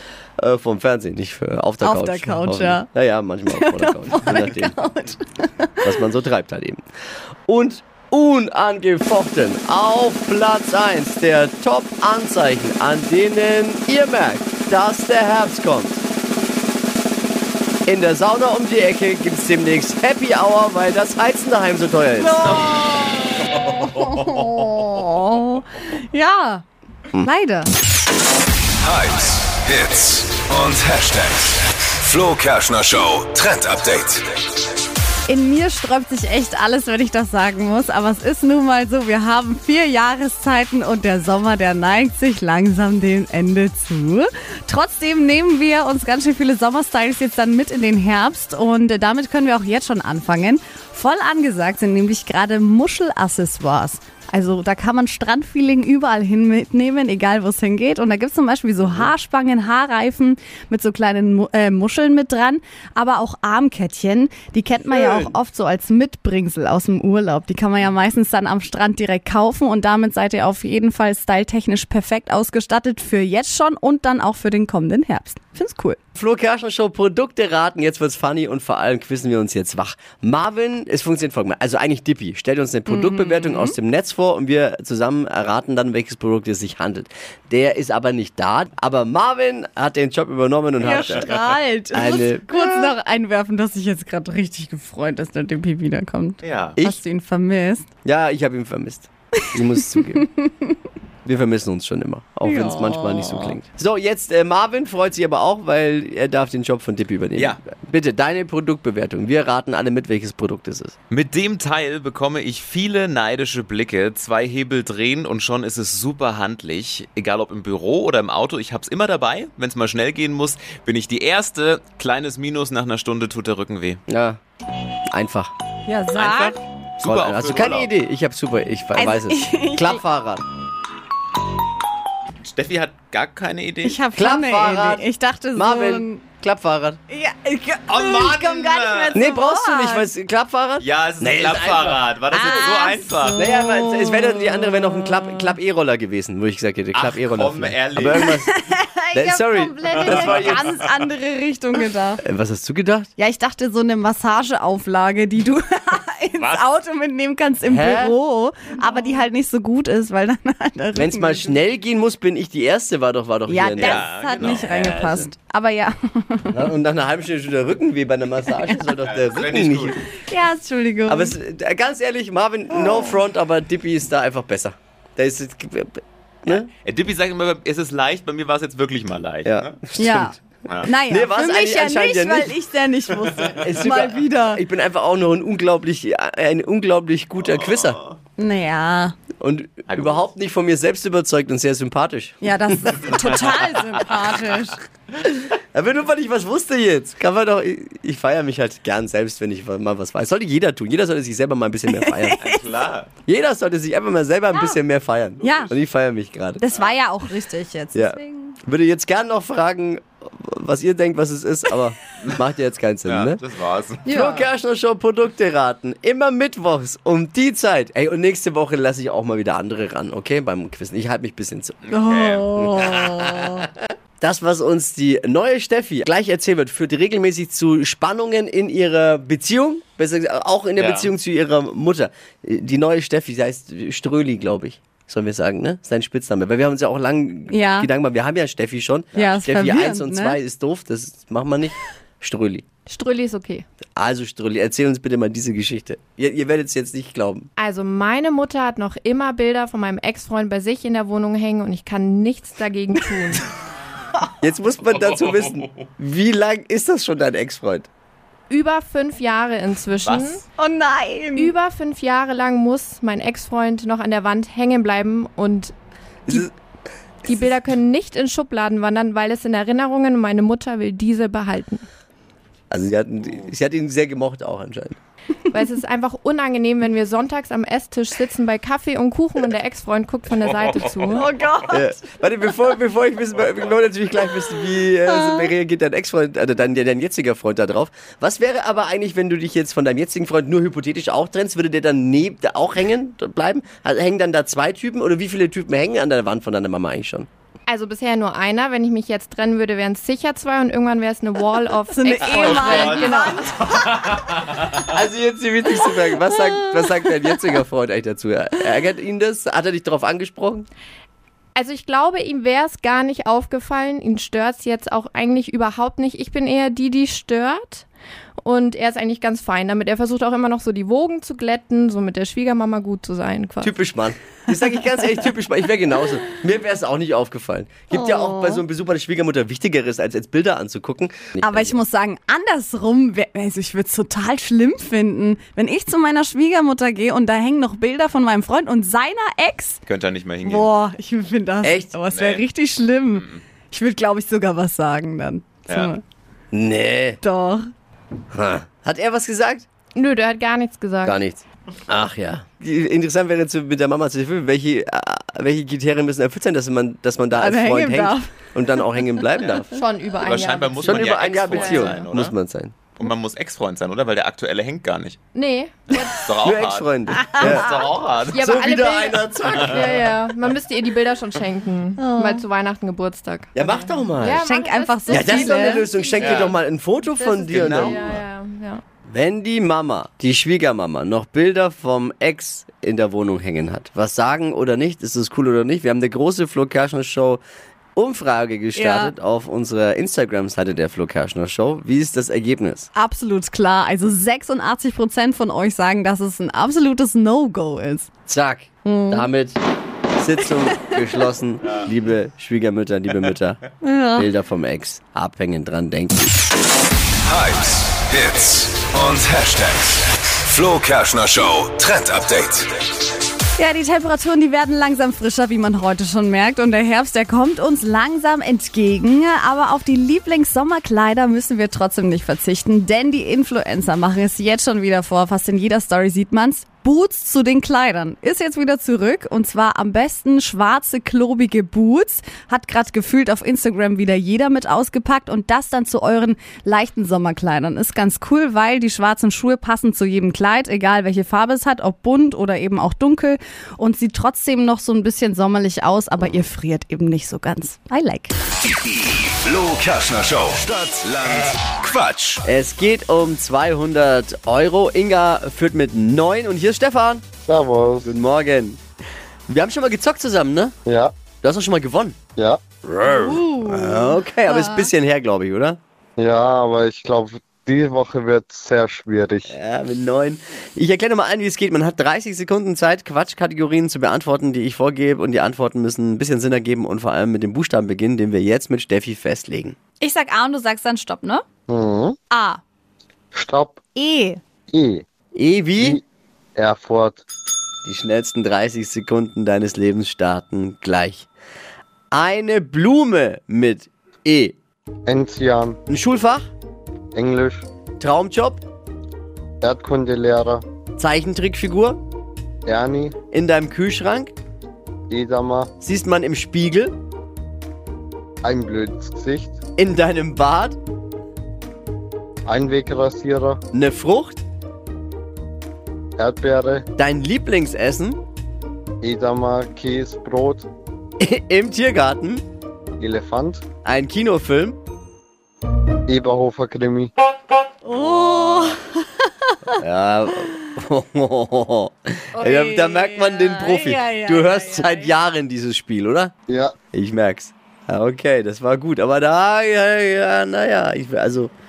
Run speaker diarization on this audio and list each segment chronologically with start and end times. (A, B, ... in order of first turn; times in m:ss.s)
0:00.4-0:04.8 A
0:01.8-0:02.9 B
0:03.5-0:05.9 B
0:05.8-0:06.8 A
0:07.5-0:16.0 A
0:17.8-0:22.7 A
0:22.2-0:26.6 B
0:23.5-0:24.0 C
0:27.2-0:27.7 B
0:28.8-0:34.3 D
0:35.3-1:16.0 B
1:04.9-1:05.3 C
1:16.2-1:31.4 A
1:22.9-1:23.7 B
1:30.8-1:31.6 C
1:30.8-1:37.9 B
1:31.9-1:32.7 A
1:36.4-1:36.8 C
1:38.0-1:40.2 A
1:41.2-1:50.9 A
1:42.4-1:43.6 B
1:51.1-2:04.0 C
2:04.1-2:04.4 A
2:05.1-2:05.5 A
2:05.8-2:06.6 B
2:06.1-2:07.9 C
2:07.0-2:10.4 A
2:08.9-2:10.0 B
2:12.4-2:14.0 C
2:13.8-2:16.2 B
2:14.1-2:17.0 A
2:17.1-2:20.1 B
2:17.9-2:19.2 C
2:19.1-2:22.0 A
2:20.8-2:23.5 C
2:22.3-2:25.5 B
2:23.3-2:28.5 A
2:26.9-2:28.3 C
2:28.2-2:32.2 B
2:29.1-2:30.7 A
2:29.9-2:30.9 C
2:32.2-2:33.1 A
2:33.2-2:41.5 B
2:36.4-2:36.7 C
2:37.6-2:38.2 A
2:40.9-2:44.6 A
2:43.5-2:46.6 B
2:43.8-2:45.3 C
2:46.5-2:50.0 A
2:49.0-2:50.1 C
2:50.2-2:51.3 B
2:51.1-2:56.7 A
2:56.5-2:59.8 C
2:59.4-3:00.4 A
3:00.0-3:04.6 B
3:01.0-3:02.6 A
3:03.6-3:08.0 A
3:07.4-3:08.2 C
3:08.4-3:09.2 B
3:09.4-3:13.0 A
3:09.9-3:10.2 C
3:12.4-3:14.8 B
3:15.7-3:22.4 A
3:21.9-3:22.6 B
3:22.4-3:23.1 C
3:23.2-3:26.6 A
3:25.4-3:25.7 C
3:25.4-3:25.7 B
3:26.6-3:28.6 B
3:27.9-3:33.4 A
3:33.0-3:34.0 C
3:34.0-3:41.8 A
3:34.0-3:34.5 B
3:41.8-3:42.6 C
3:41.9-3:43.6 B
3:42.5-3:43.7 A
3:44.2-4:02.6 A
3:50.8-3:51.1 C
3:57.5-3:57.9 B
3:59.2-4:00.4 B
4:02.8-4:03.6 E
4:04.0-4:07.5 A
4:07.6-4:13.4 E
4:14.4-4:17.9 A
4:14.9-4:15.7 C
4:18.5-4:20.4 E
4:20.0-4:20.4 C
4:20.6-4:21.5 B
4:21.4-4:25.7 E
4:26.3-4:26.5 A
4:27.2-4:31.8 E
4:32.7-4:35.0 A
4:35.5-4:41.3 E
4:40.6-4:41.2 C
4:41.1-4:42.6 B
4:41.7-4:57.3 A
4:45.1-4:45.5 B
4:57.7-5:03.5 E
5:01.9-5:03.5 B
5:02.2-5:04.9 C
5:04.8-5:10.7 A
5:06.3-5:07.1 B
5:11.6-5:17.8 E
5:18.4-5:23.7 E
5:23.6-5:31.8 A
5:27.9-5:28.6 B
5:31.4-5:39.8 B
5:39.9-5:40.7 C
5:40.4-5:46.0 B
5:41.6-5:41.9 A
5:42.1-5:42.4 C
5:43.1-5:43.4 C
5:46.5-5:47.2 A
5:47.2-5:47.6 B
5:48.3-5:49.6 A
5:50.0-5:51.2 E
5:51.0-5:59.8 A
5:57.3-5:58.3 B
5:59.7-6:01.0 E
6:00.2-6:02.4 C
6:00.8-6:02.7 A
6:01.6-6:02.0 E
6:03.0-6:05.2 C
6:05.3-6:06.2 E
6:05.9-6:08.8 C
6:06.4-6:10.1 A
6:07.1-6:07.7 B
6:08.3-6:16.6 E
6:09.4-6:09.8 C
6:12.0-6:12.4 B
6:13.6-6:14.4 A
6:14.4-6:15.9 B
6:15.1-6:18.0 A
6:16.2-6:16.6 C
6:17.1-6:18.8 E
6:17.4-6:18.2 C
6:19.1-6:27.4 A
6:28.0-6:32.9 A
6:28.8-6:29.1 B
6:33.0-6:38.1 B
6:38.3-6:39.6 A
6:38.8-6:39.3 B
6:40.2-6:43.6 A
6:43.8-6:44.3 B
6:44.1-6:46.4 A
6:47.2-6:52.7 D
6:53.6-7:28.3 B
7:28.6-7:32.4 D
7:32.4-7:37.2 A
7:37.4-7:38.1 F
7:38.0-7:38.8 A
7:39.5-7:40.7 A
7:40.9-7:41.1 F
7:41.4-7:42.2 A
7:42.4-7:42.6 F
7:42.8-7:45.8 A
7:43.0-7:44.9 B
7:46.2-7:49.5 F
7:49.5-7:59.8 A
8:00.0-8:01.4 B
8:01.7-8:02.2 F
8:02.3-8:02.6 B
8:03.4-8:03.8 F
8:04.0-8:04.4 B
8:04.7-8:05.0 F
8:05.3-8:06.0 A
8:06.6-8:07.2 F
8:07.8-8:11.3 A
8:12.1-8:14.6 A
8:15.1-8:15.8 F
8:15.9-8:16.5 A
8:17.1-8:17.6 F
8:18.0-8:18.6 A
8:19.6-8:20.6 F
8:21.0-8:22.0 A
8:22.6-8:23.1 F
8:23.3-8:24.3 A
8:25.1-8:25.7 F
8:25.8-8:26.9 A
8:28.4-8:29.6 F
8:29.8-8:30.8 A
8:32.5-8:33.6 F
8:33.7-8:34.4 A
8:36.2-8:36.8 F
8:37.0-8:38.2 A
8:39.0-8:40.7 F
8:41.2-8:42.4 A
8:43.0-8:43.6 F
8:43.8-8:44.8 A
8:46.1-8:47.1 F
8:47.8-8:49.0 B
8:48.0-8:48.6 A
8:49.8-8:56.3 A
8:52.4-8:55.1 B
8:56.5-8:56.8 F
8:56.9-9:01.5 A